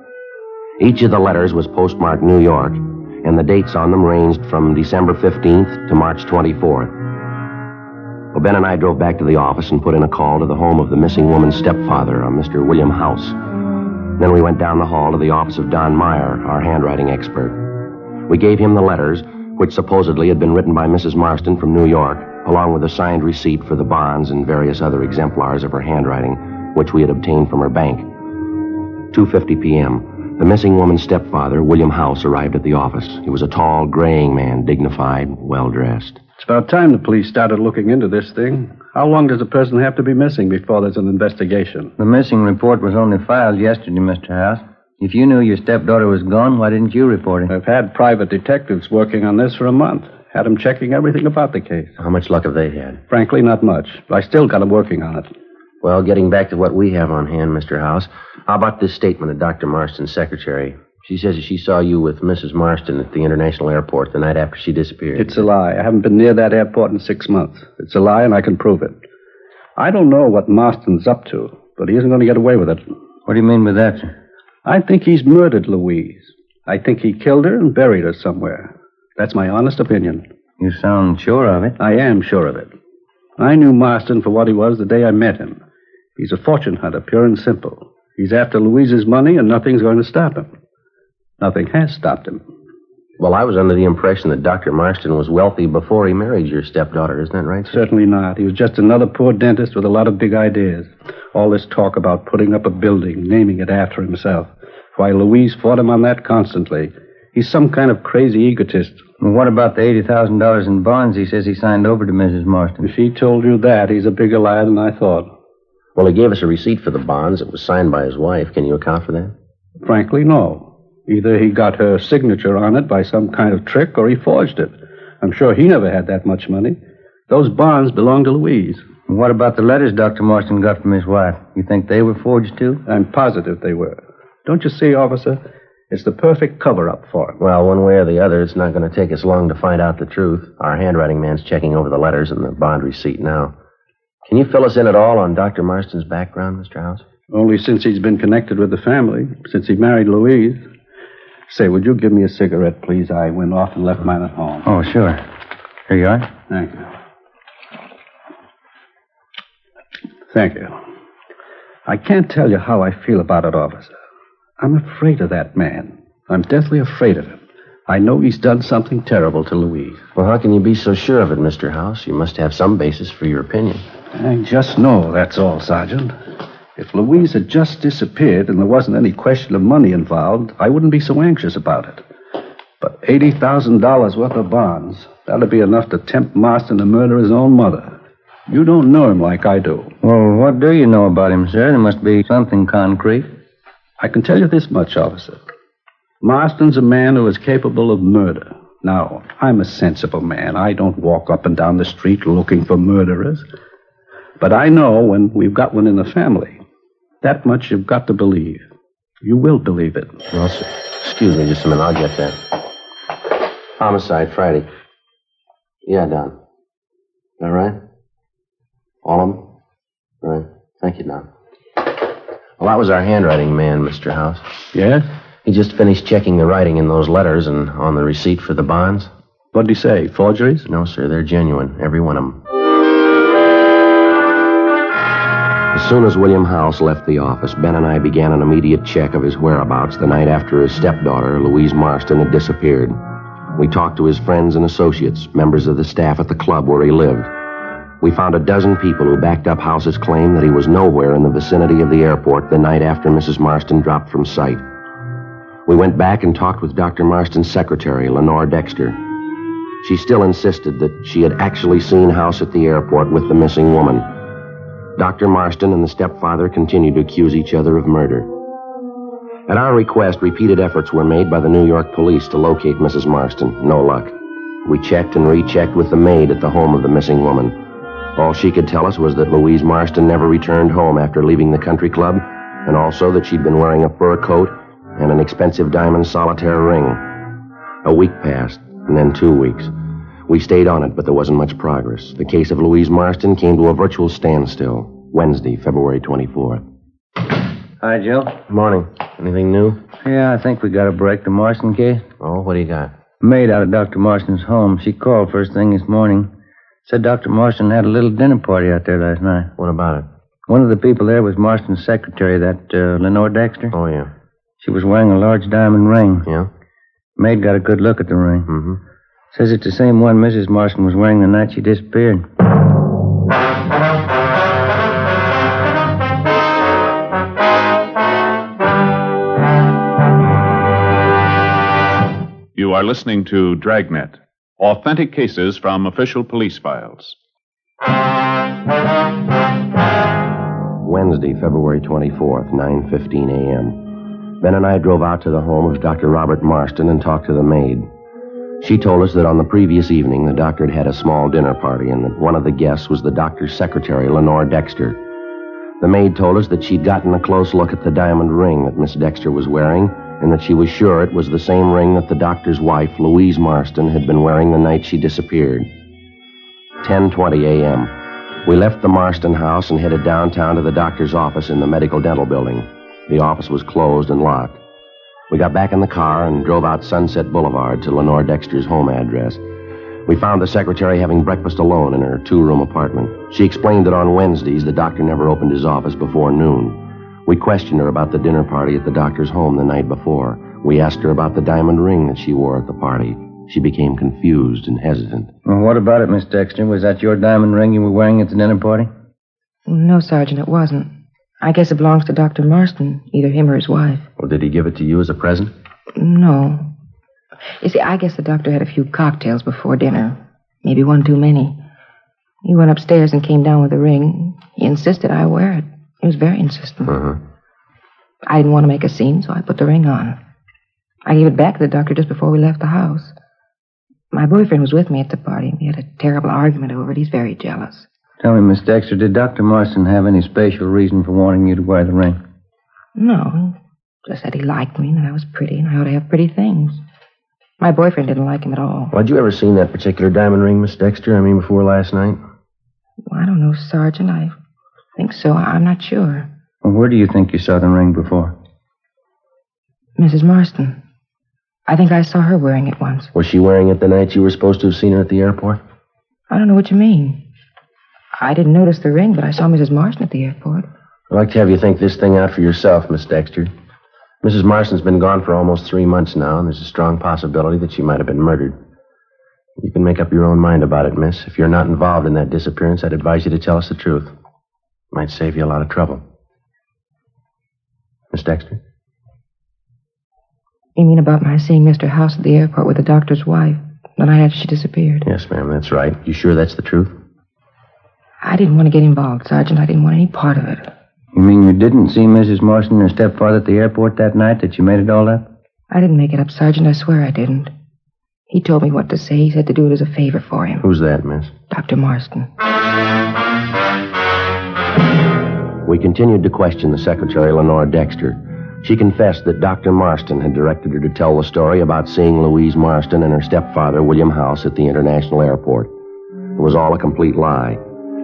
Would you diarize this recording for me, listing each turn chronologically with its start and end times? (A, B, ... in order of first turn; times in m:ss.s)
0:00.8-0:07.0 A
0:08.3-0:13.4 A
0:14.2-0:17.6 A
0:18.3-0:28.1 A
0:29.1-0:36.2 A
0:36.4-0:41.9 B
0:42.0-0:47.5 C
0:47.5-0:51.9 B
0:52.0-0:53.0 A
0:53.1-0:55.3 B
0:55.8-1:05.4 A
1:05.2-1:09.0 B
1:09.8-1:12.8 B
1:13.2-1:14.1 C
1:14.6-1:20.2 B
1:20.6-1:21.8 C
1:21.8-1:22.7 B
1:23.4-1:25.6 B
1:26.2-1:30.5 B
1:31.4-1:32.4 B
1:33.2-1:37.8 A
1:37.7-1:49.0 B
1:49.2-1:52.8 C
1:52.8-1:55.3 B
1:56.0-1:59.3 A
1:59.8-2:08.8 B
2:09.1-2:12.8 C
2:12.8-2:17.4 B
2:17.4-2:23.5 A
2:24.2-2:27.0 A
2:27.3-2:30.6 B
2:31.5-2:34.7 B
2:34.6-2:35.2 C
2:35.9-2:36.3 C
2:36.5-2:36.9 B
2:40.3-2:40.7 B
2:41.8-2:43.9 B
2:44.6-2:50.0 B
2:50.1-2:53.8 A
2:54.1-2:56.1 B
2:56.7-3:02.0 B
3:02.8-3:08.0 B
3:08.5-3:09.9 B
3:10.0-3:13.3 C
3:14.0-3:15.4 B
3:16.2-3:23.4 B
3:24.4-3:26.6 B
3:27.2-3:28.6 B
3:29.2-3:30.2 B
3:30.3-3:32.4 A
3:33.8-3:34.7 A
3:35.8-3:36.3 A
3:37.4-3:37.8 A
3:39.0-3:39.5 A
3:40.2-3:41.3 A
3:42.6-3:44.5 A
3:44.7-3:45.1 B
3:45.4-3:49.1 A
3:49.5-3:50.7 B
3:50.6-3:52.4 A
3:55.7-4:03.0 A
4:03.6-4:07.3 A
4:08.0-4:14.6 A
4:15.6-4:19.0 A
4:19.8-4:24.1 A
4:25.0-4:28.3 A
4:29.5-4:37.6 A
4:38.2-4:47.1 A
4:47.8-4:49.7 A
4:50.3-4:56.6 A
4:57.8-4:58.4 C
4:58.5-4:59.8 A
5:00.0-5:02.0 C
5:02.2-5:02.9 A
5:03.2-5:06.3 C
5:06.8-5:09.5 C
5:09.6-5:10.1 A
5:10.5-5:13.7 C
5:13.7-5:14.1 A
5:14.6-5:16.3 C
5:17.2-5:18.5 C
5:18.5-5:18.8 A
5:19.3-5:22.2 C
5:32.5-5:37.2 D
5:40.8-5:43.9 A
5:44.4-5:47.9 A
5:48.6-5:55.0 A
5:55.8-6:05.7 A
6:06.8-6:07.9 A
6:08.4-6:14.6 A
6:15.3-6:19.4 A
6:20.0-6:35.3 A
6:35.4-6:38.9 C
6:39.7-6:44.1 E
6:44.2-6:45.5 A
6:45.9-6:46.7 E
6:47.6-6:51.6 E
6:52.4-6:57.0 E
6:56.9-6:57.2 A
6:58.2-7:00.2 E
7:01.0-7:03.1 E
7:04.1-7:07.9 E
7:08.2-7:12.2 C
7:12.9-7:16.8 E
7:17.6-7:18.9 E
7:18.9-7:22.2 A
7:23.0-7:24.3 E
7:25.0-7:26.3 E
7:26.6-7:28.3 C
7:30.0-7:30.8 E
7:31.7-7:33.1 E
7:33.1-7:35.6 A
7:36.3-7:37.2 E
7:38.1-7:40.7 E
7:41.1-7:43.5 A
7:44.2-7:48.6 A
7:49.6-7:54.1 A
7:54.9-7:56.0 A
7:58.1-7:58.6 A
8:00.8-8:05.1 E
8:05.0-8:07.0 A
8:08.2-8:10.7 E
8:11.1-8:15.2 C
8:15.7-8:17.5 E
8:18.3-8:20.6 E
8:20.6-8:21.3 A
8:21.5-8:22.3 E
8:25.6-8:35.7 A
8:36.4-8:37.6 A